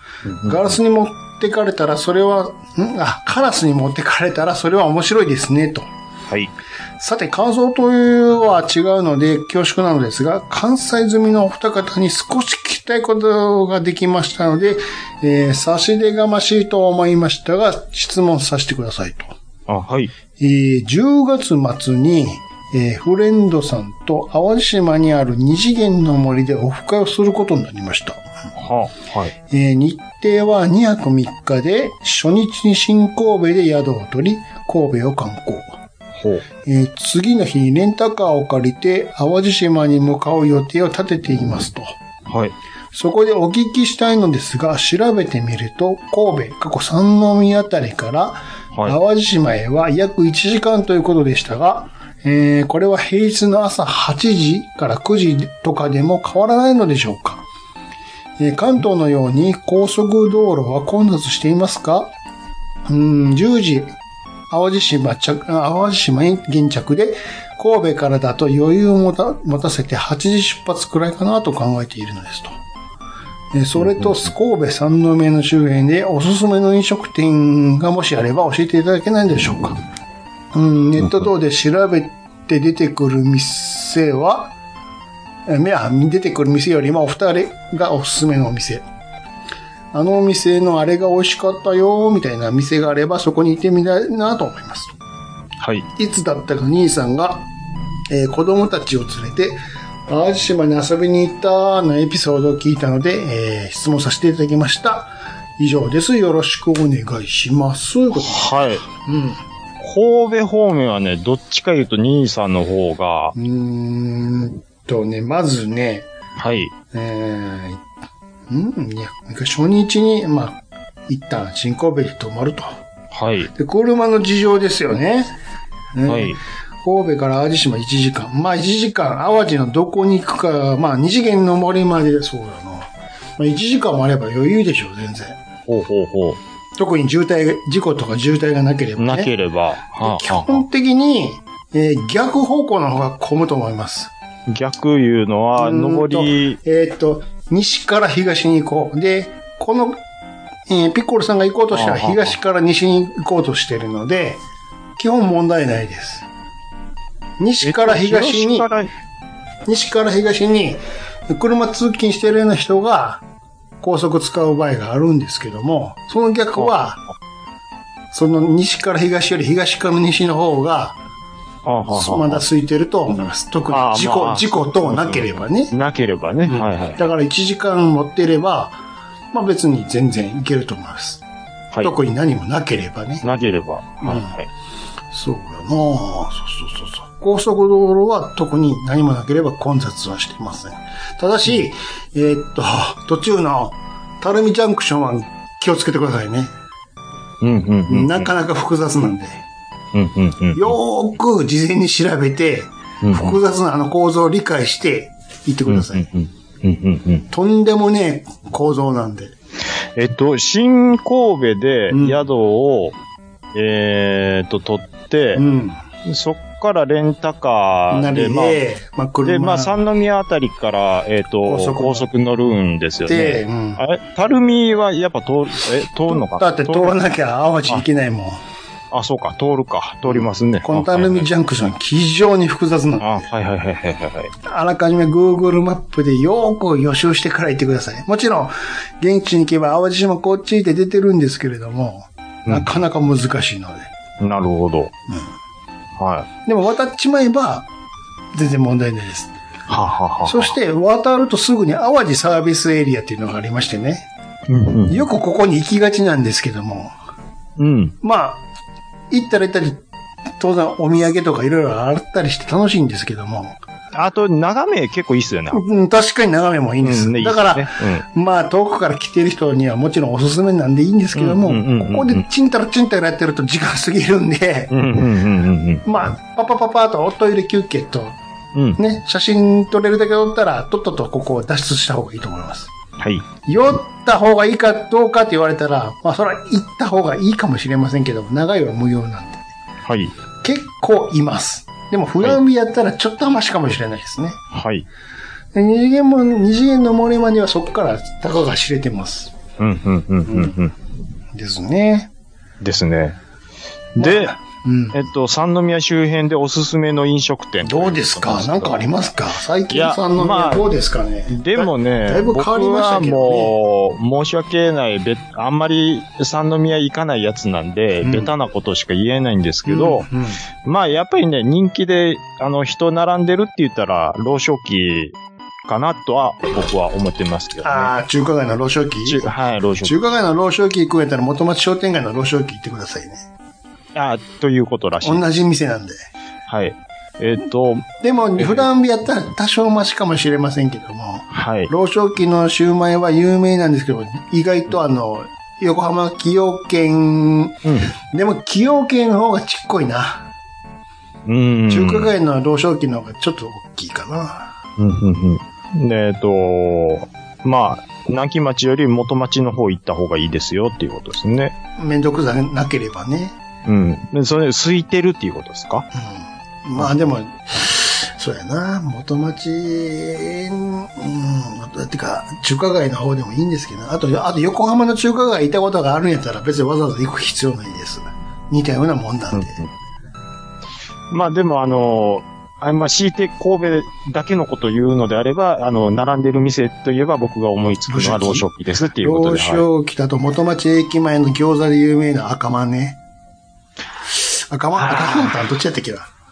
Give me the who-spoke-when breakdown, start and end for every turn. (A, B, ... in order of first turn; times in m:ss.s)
0:00.3-0:00.6 A
0:00.4-0:05.9 B
0:07.0-0:19.4 B
0:19.7-0:20.1 A
0:20.4-0:28.3 B
0:28.6-0:29.3 A
0:29.5-0:35.8 B
0:36.2-0:36.4 A
0:36.6-0:42.0 B
0:42.3-0:42.6 A
0:42.9-0:57.4 B
0:58.4-1:02.1 B
1:02.9-1:04.0 B
1:04.5-1:12.6 B
1:13.5-1:19.8 B
1:13.8-1:14.3 A
1:20.5-1:24.5 B
1:25.5-1:28.9 B
1:29.9-1:34.9 B
1:35.6-1:35.9 A
1:36.0-1:37.5 B
1:38.1-1:49.4 B
1:48.1-1:48.9 A
1:49.8-1:53.4 A
1:53.4-1:56.1 B
1:56.4-1:56.7 A
1:56.9-1:57.8 B
1:58.5-2:02.8 B
2:03.1-2:03.5 A
2:03.5-2:05.3 B
2:05.9-2:15.4 B
2:06.1-2:06.4 A
2:15.7-2:16.4 A
2:16.8-2:19.3 B
2:19.0-2:20.6 A
2:20.0-2:24.1 B
2:24.5-2:26.6 A
2:25.6-2:30.0 B
2:30.7-2:34.4 B
2:31.7-2:32.4 A
2:35.0-2:36.3 B
2:37.4-2:38.7 B
2:37.6-2:38.9 A
2:39.7-2:43.2 B
2:43.8-2:47.0 B
2:48.1-2:51.0 B
2:51.6-2:52.4 A
2:51.9-2:55.7 B
2:53.7-2:57.0 A
2:56.5-2:58.8 B
2:59.3-3:01.2 B
3:01.8-3:03.2 B
3:03.2-3:04.5 A
3:04.0-3:04.4 B
3:05.1-3:16.5 B
3:17.4-3:18.3 A
3:17.9-3:19.4 B
3:19.9-3:20.7 A
3:20.6-3:26.1 B
3:23.0-3:23.4 A
3:25.7-3:27.3 A
3:27.3-3:29.4 B
3:30.0-3:33.0 A
3:31.9-3:32.2 B
3:33.5-3:35.4 A
3:35.4-3:35.8 B
3:36.0-3:38.6 A
3:37.9-3:39.8 B
3:39.2-3:46.9 A
3:41.4-3:42.1 B
3:43.1-3:43.8 B
3:46.1-3:48.4 B
3:48.9-3:51.3 A
3:50.0-3:53.3 B
3:53.0-3:54.3 A
3:54.4-4:03.9 B
4:02.5-4:02.8 A
4:04.2-4:04.9 A
4:05.1-4:05.3 B
4:06.0-4:06.3 A
4:06.5-4:07.7 B
4:08.3-4:09.3 B
4:09.7-4:10.5 A
4:10.2-4:14.1 B
4:14.5-4:15.1 A
4:14.9-4:16.9 B
4:17.6-4:18.0 A
4:18.0-4:18.4 B
4:19.1-4:19.8 B
4:20.4-4:23.6 B
4:23.9-4:25.6 A
4:25.5-4:34.7 B
4:26.8-4:28.0 A
4:31.2-4:32.2 A
4:34.7-4:35.8 A
4:35.8-4:38.2 B
4:38.8-4:42.7 B
4:43.0-4:43.3 A
4:43.4-4:49.5 B
4:49.9-4:50.1 A
4:50.4-4:54.4 B
4:54.5-4:54.9 A
4:55.5-4:59.4 B
4:59.6-5:00.8 A
5:00.3-5:00.5 B
5:01.3-5:02.1 B
5:02.6-5:03.2 A
5:04.0-5:04.4 A
5:04.0-5:05.0 B
5:04.9-5:08.8 A
5:07.6-5:13.6 B
5:09.7-5:10.6 A
5:11.3-5:20.1 A
5:18.0-5:18.3 B
5:19.7-5:20.4 B
5:20.6-5:27.9 A
5:27.6-5:29.3 B
5:29.1-5:30.0 A
5:29.8-5:33.2 B
5:34.0-5:35.3 A
5:35.0-5:36.0 B
5:36.5-5:38.7 A
5:38.0-5:50.3 B
5:41.3-5:41.7 A
5:47.6-5:47.9 A
5:51.3-5:52.2 A
5:51.7-5:54.5 B
5:54.8-6:01.6 A
6:01.8-6:03.4 B
6:03.7-6:05.9 A
6:05.9-6:19.6 B
6:19.3-6:19.7 A
6:21.1-6:29.7 A
6:27.9-6:28.5 B
6:29.0-6:33.0 B
6:34.1-6:36.1 B
6:34.8-6:35.4 A